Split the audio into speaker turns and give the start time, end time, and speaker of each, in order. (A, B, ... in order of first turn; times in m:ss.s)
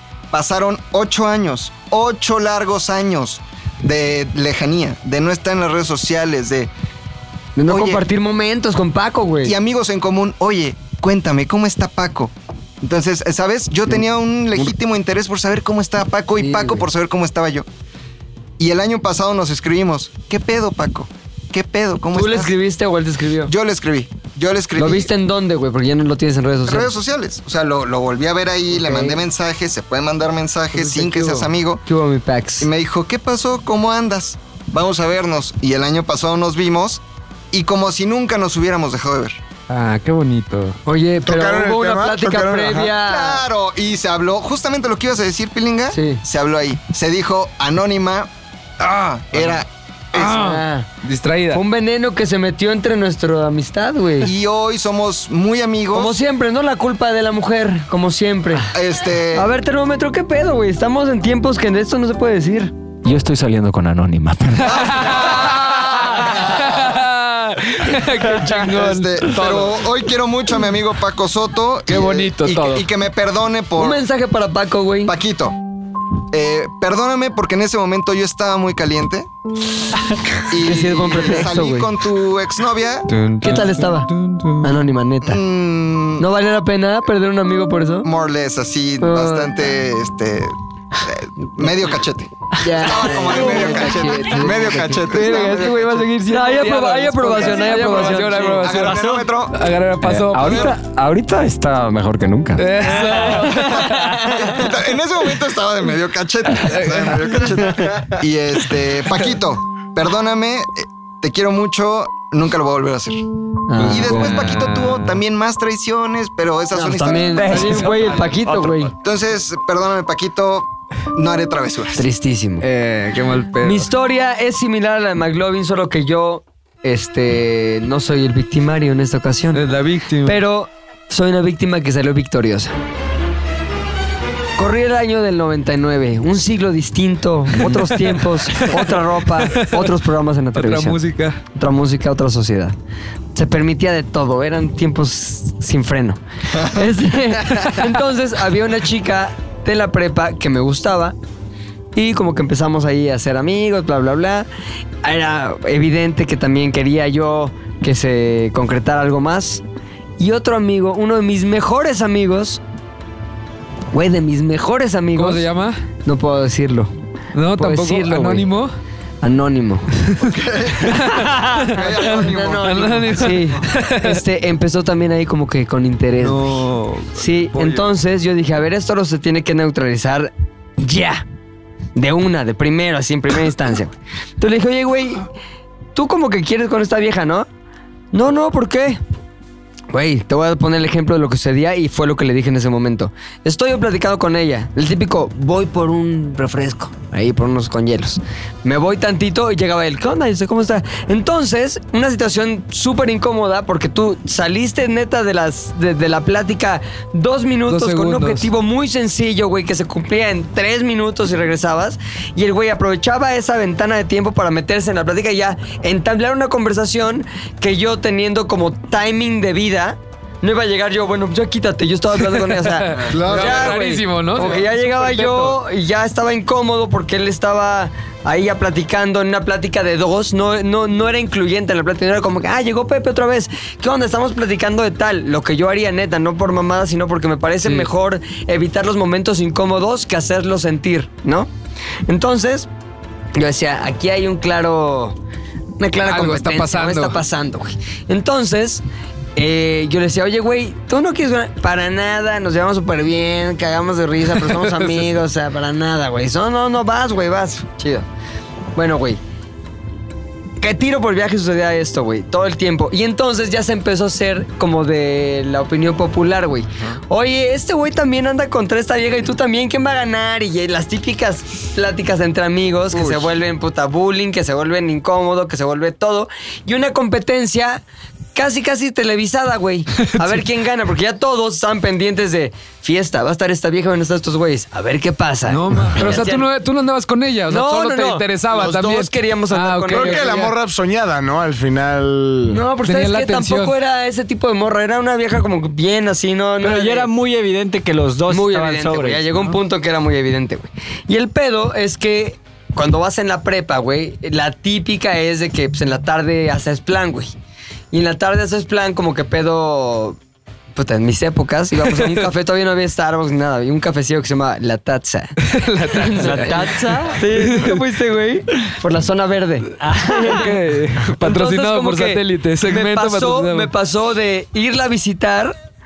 0:00.3-0:06.7 A
0:07.6-0:09.5 B
0:07.7-0:08.0 A
0:09.4-0:17.7 A
0:16.4-0:16.8 B
0:18.6-0:22.5 A
0:22.1-0:23.5 B
0:23.5-0:25.1 A
0:24.8-0:26.9 B
0:26.7-0:31.8 A
0:28.7-0:29.2 B
0:30.7-0:32.7 B
0:32.6-0:39.4 A
0:39.7-0:40.8 C
0:40.9-0:43.4 B
0:41.2-0:43.0 D
0:43.0-0:48.3 A
0:45.9-0:46.2 B
0:48.8-0:50.5 A
0:50.1-0:51.6 C
0:50.2-0:50.9 B
0:51.5-0:54.3 B
0:54.2-0:56.2 A
0:55.9-0:58.7 B
0:58.7-0:59.5 A
0:59.3-1:02.7 B
1:03.0-1:05.1 E
1:04.6-1:09.8 C
1:04.7-1:06.0 A
1:08.2-1:14.1 A
1:12.0-1:12.8 C
1:13.8-1:15.1 B
1:15.0-1:15.6 A
1:16.3-1:19.3 A
1:20.5-1:23.1 A
1:20.6-1:21.9 B
1:23.1-1:24.7 C
1:23.4-1:24.1 B
1:24.6-1:25.4 B
1:25.2-1:26.3 A
1:26.2-1:28.1 B
1:28.0-1:36.2 A
1:29.0-1:29.6 B
1:32.6-1:38.7 B
1:33.4-1:33.9 C
1:35.2-1:40.7 C
1:37.4-1:39.6 A
1:40.0-1:42.8 E
1:40.4-1:40.8 A
1:42.6-1:44.6 C
1:43.9-1:53.2 A
1:46.6-1:47.5 C
1:53.7-1:54.4 B
1:53.8-1:57.9 A
1:53.8-1:55.2 C
1:56.7-1:58.9 B
1:57.3-1:58.9 E
1:59.0-2:02.1 A
2:02.0-2:02.7 B
2:02.6-2:03.9 C
2:03.6-2:09.6 B
2:09.5-2:10.4 C
2:10.2-2:12.7 B
2:14.6-2:21.0 B
2:17.5-2:20.0 C
2:20.5-2:21.4 C
2:21.5-2:22.7 B
2:23.4-2:31.2 B
2:27.5-2:27.9 C
2:32.0-2:34.5 B
2:35.0-2:39.6 B
2:40.2-2:42.6 B
2:43.9-2:45.4 B
2:45.2-2:45.8 C
2:46.0-2:46.9 B
2:47.3-2:48.7 C
2:47.6-2:48.5 B
2:49.2-2:49.9 B
2:50.0-2:54.2 C
2:50.2-2:53.7 A
2:51.1-2:56.6 B
2:56.2-2:57.8 C
2:57.1-3:01.2 B
3:02.0-3:05.3 B
3:06.0-3:07.5 B
3:08.1-3:09.0 B
3:09.9-4:01.5 B
3:27.7-3:28.5 C
3:42.3-3:45.6 C
3:43.1-3:43.8 A
3:57.6-3:57.9 C
4:02.1-4:02.7 B
4:03.3-4:05.2 B
4:05.8-4:08.8 B
4:06.0-4:07.2 C
4:09.4-4:18.1 B
4:14.5-4:15.1 C
4:18.7-4:19.2 B
4:20.6-4:37.8 B
4:32.9-4:33.3 A
4:38.4-4:46.5 B
4:40.0-4:40.4 C
4:45.5-4:50.5 C
4:47.5-4:50.5 B
4:49.9-4:52.6 D
4:52.5-4:57.1 B
4:52.8-4:53.7 C
4:56.6-4:59.6 F
4:58.3-5:07.3 B
5:07.9-5:10.2 B
5:10.7-5:20.5 B
5:11.8-5:12.3 C
5:15.4-5:16.6 C
5:16.2-5:17.2 F
5:17.3-5:17.8 C
5:20.1-5:23.7 C
5:21.2-5:25.6 B